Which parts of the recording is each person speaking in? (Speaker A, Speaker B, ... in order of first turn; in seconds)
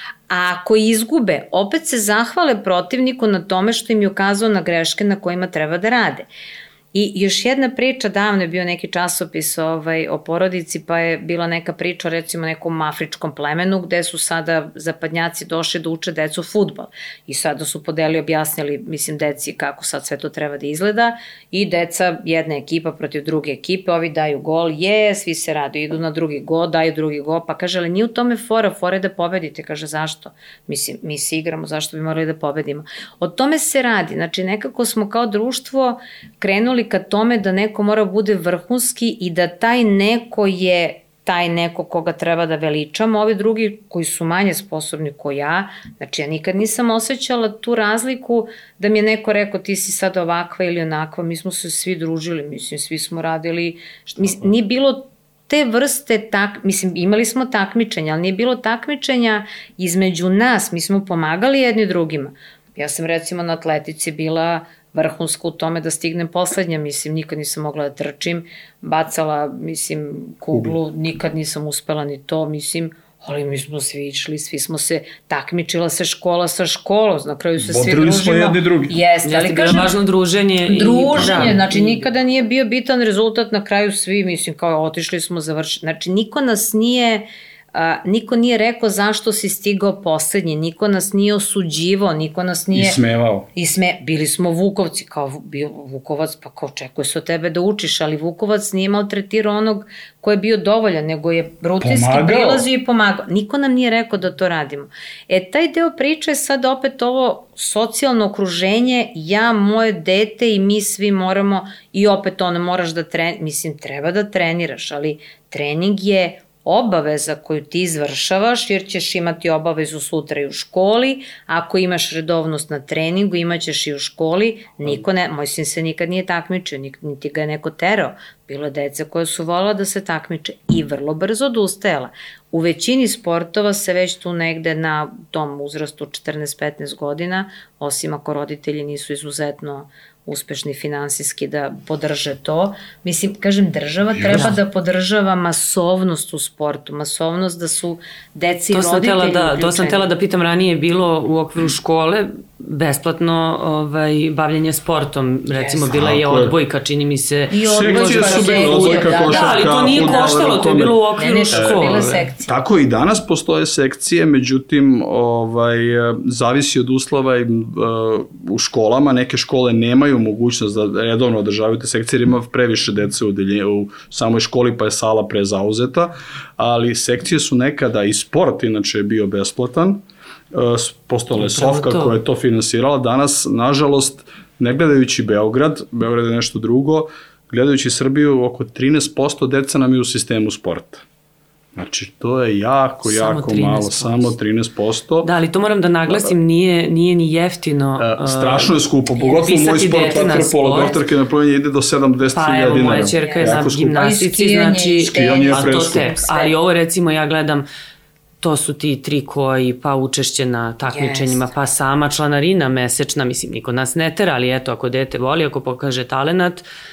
Speaker A: 0.3-6.3, 6.9-79.9, 80.7-93.0, 93.5-150.1, 155.5-155.9, 157.5-160.5, 161.2-162.6, 199.2-200.2, 202.7-206.6, 210.9-211.5
Speaker B: 77.6-79.0, 81.1-81.6, 92.7-93.5, 101.8-102.7, 144.1-144.5, 155.9-156.6, 157.7-161.0, 161.5-191.1, 191.8-195.3, 196.1-196.3, 198.0-204.1, 205.1-206.1
Speaker C: 79.2-82.0, 148.7-162.3, 181.4-182.2, 193.0-194.3, 195.2-200.9, 202.3-207.7, 208.4-216.6